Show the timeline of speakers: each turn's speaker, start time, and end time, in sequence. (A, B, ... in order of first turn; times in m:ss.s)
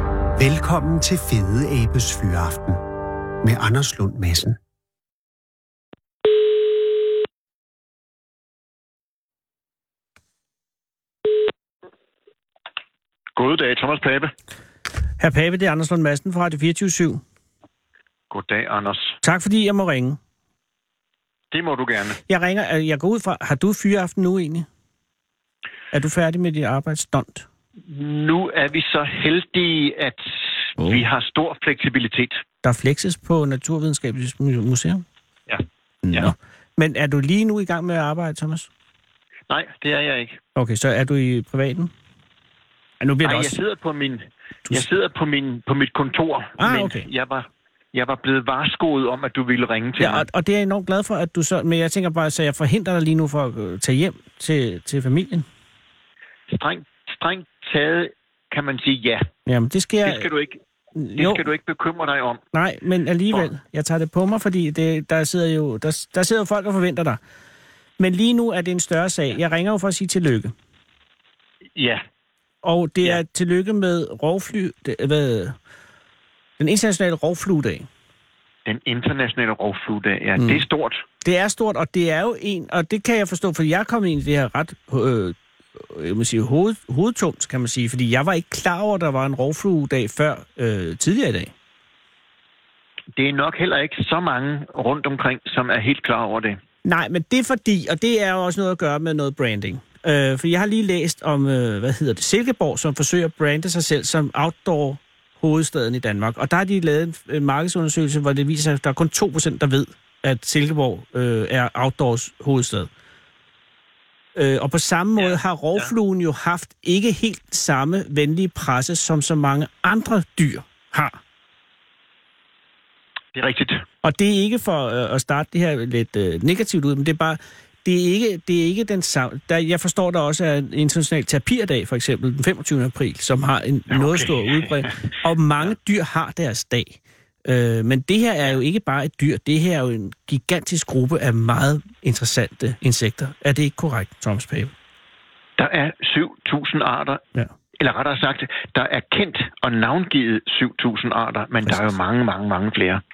0:00.4-0:02.8 A
0:03.4-0:04.6 A
0:13.4-0:14.3 B
0:15.2-0:17.2 C
0:18.3-0:19.2 B
0:19.2-0:20.2 C
0:21.5-0:22.2 B
0:22.3-0:24.7 C
0:25.9-0:27.5 C
0:27.9-0:32.4 B
0:30.8-0:31.0 C
0:32.6-0:35.0 C
0:35.5-0:36.3 B
0:36.0-0:38.7 C
0:39.5-0:40.4 B
0:40.6-0:41.9 C
0:43.0-0:43.6 C
0:43.2-0:50.3 B
0:46.6-0:47.1 C
0:50.0-0:55.5 C
0:56.5-0:59.3 B
0:59.5-1:00.3 C
1:00.0-1:00.6 B
1:01.0-1:01.4 C
1:01.2-1:02.4 B
1:02.5-1:07.2 C
1:08.0-1:10.5 C
1:11.8-1:12.0 B
1:12.6-1:15.6 C
1:16.6-1:17.9 C
1:18.7-1:21.0 B
1:20.4-1:20.6 C
1:21.2-1:31.5 C
1:33.2-1:36.6 B
1:36.8-1:52.9 C
1:54.4-2:01.2 C
1:55.2-1:55.9 B
2:03.4-2:03.8 B
2:04.0-2:24.7 C
2:13.9-2:14.9 B
2:25.6-2:27.2 B
2:27.8-2:33.0 B
2:31.6-2:31.9 C